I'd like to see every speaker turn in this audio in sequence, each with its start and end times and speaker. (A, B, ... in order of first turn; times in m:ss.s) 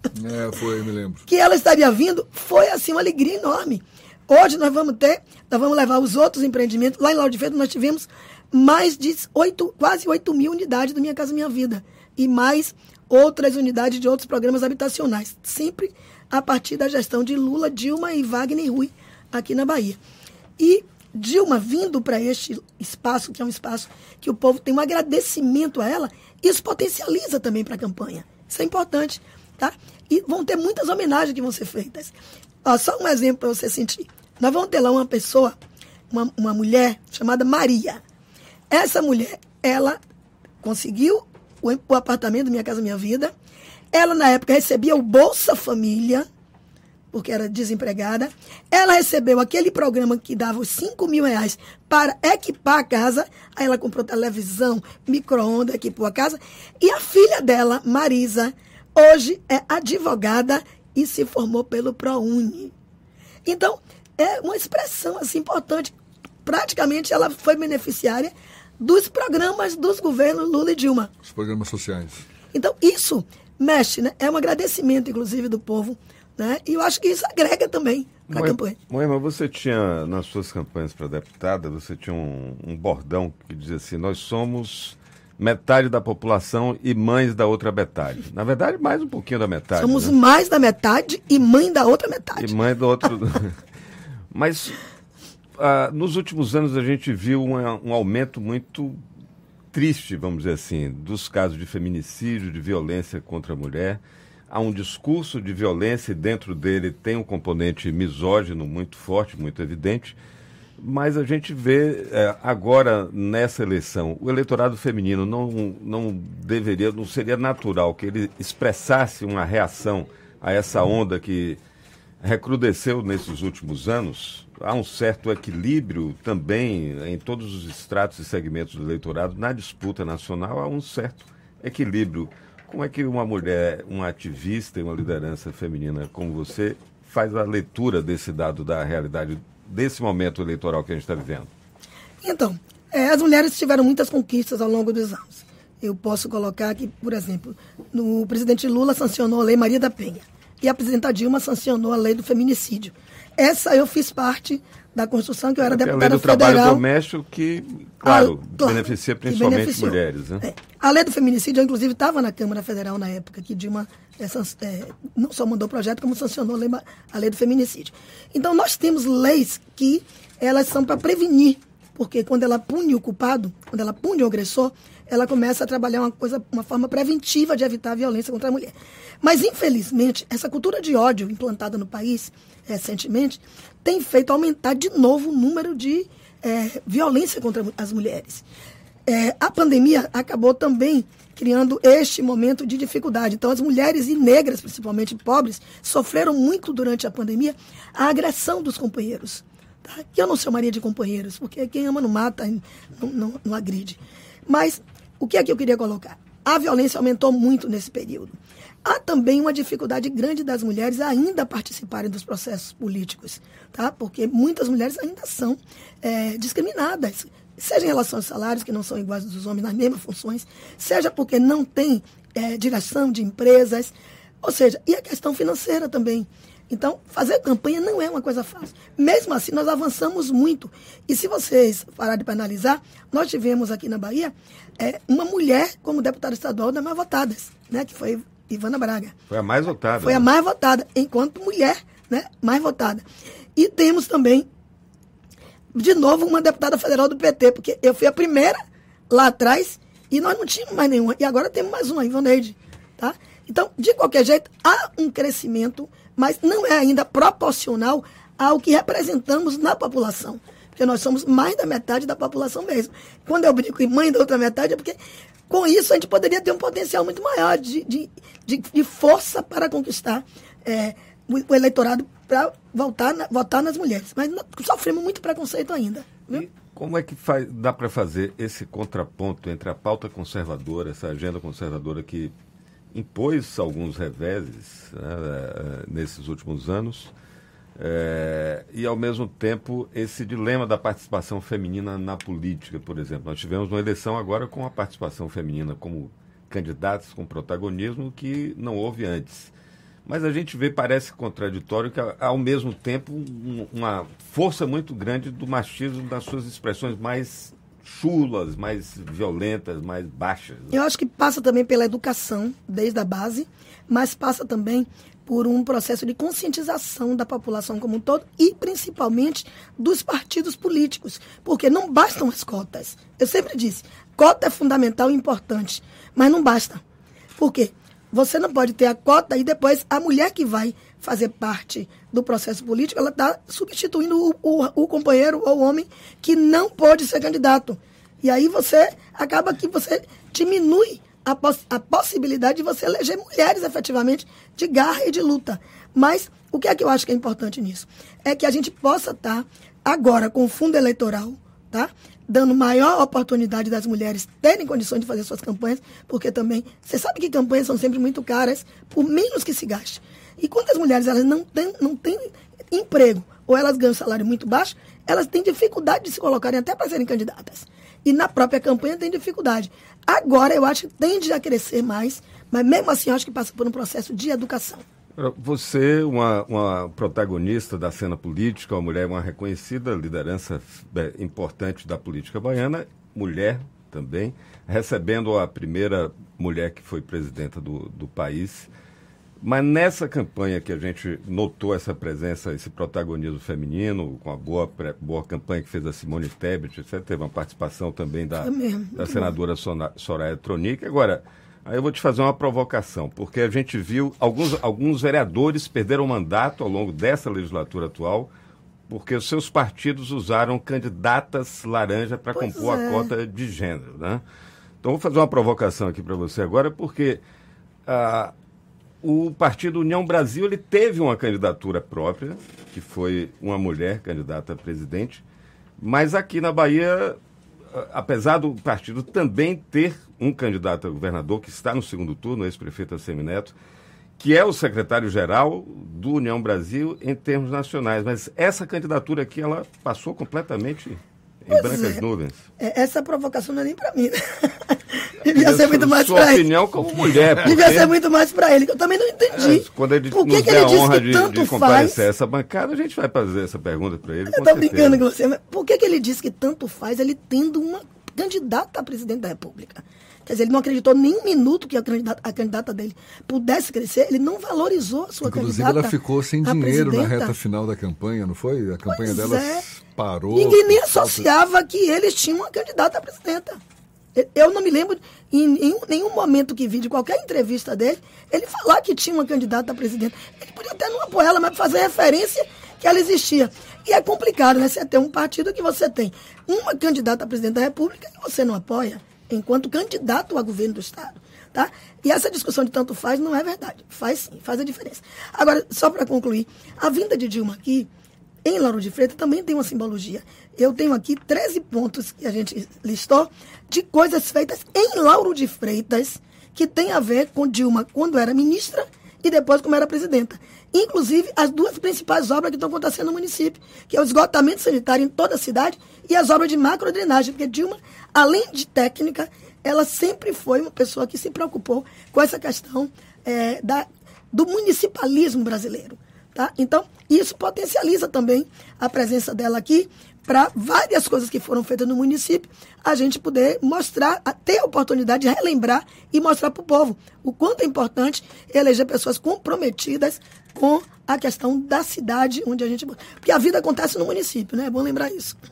0:00.1-0:01.2 A
0:01.3-0:20.0 B
0:20.6-0:35.6 B
0:36.1-0:38.0 B
0:38.7-0:40.0 B
0:40.6-0:43.3 B
0:43.9-0:46.2 B
0:47.1-1:02.7 B
1:03.4-1:05.9 B
1:06.4-1:11.1 B
1:11.2-1:12.2 A
1:12.5-1:18.8 B
1:18.3-1:30.1 C
1:29.8-1:32.5 B
1:32.4-1:33.5 C
1:34.3-1:34.8 C
1:35.6-1:39.0 C
1:39.7-1:50.2 C
1:50.8-2:01.6 C
2:02.2-2:21.5 C
2:22.2-2:36.8 B
2:35.6-2:40.4 C
2:38.0-3:08.4 B
3:09.1-3:59.1 B
3:59.3-4:00.3 C
4:00.0-4:03.0 B
4:03.6-4:04.4 B
4:05.7-4:25.0 B
4:25.5-4:36.4 B
4:36.3-4:42.3 C
4:42.9-4:47.1 C
4:47.8-4:59.5 C
5:00.0-5:10.8 C
5:10.7-5:26.8 B
5:27.4-6:14.8 B
6:15.2-6:28.7 C
6:29.4-6:48.3 C
6:38.4-6:39.3 B
6:48.9-6:54.2 C
6:52.3-6:53.1 B
6:54.8-6:57.2 C
6:57.9-6:58.3 C
6:59.0-7:05.2 C
7:05.8-7:07.2 C
7:07.7-7:13.6 C
7:14.2-7:22.4 C
7:21.5-7:22.0 B
7:22.6-7:26.4 B
7:25.3-7:27.9 C
7:27.3-7:32.0 B
7:29.3-7:35.0 C
7:34.3-7:47.3 B
7:45.2-7:51.2 A
7:48.9-7:49.7 B
7:50.3-7:53.6 B
7:54.1-8:17.9 B
8:18.4-9:05.4 B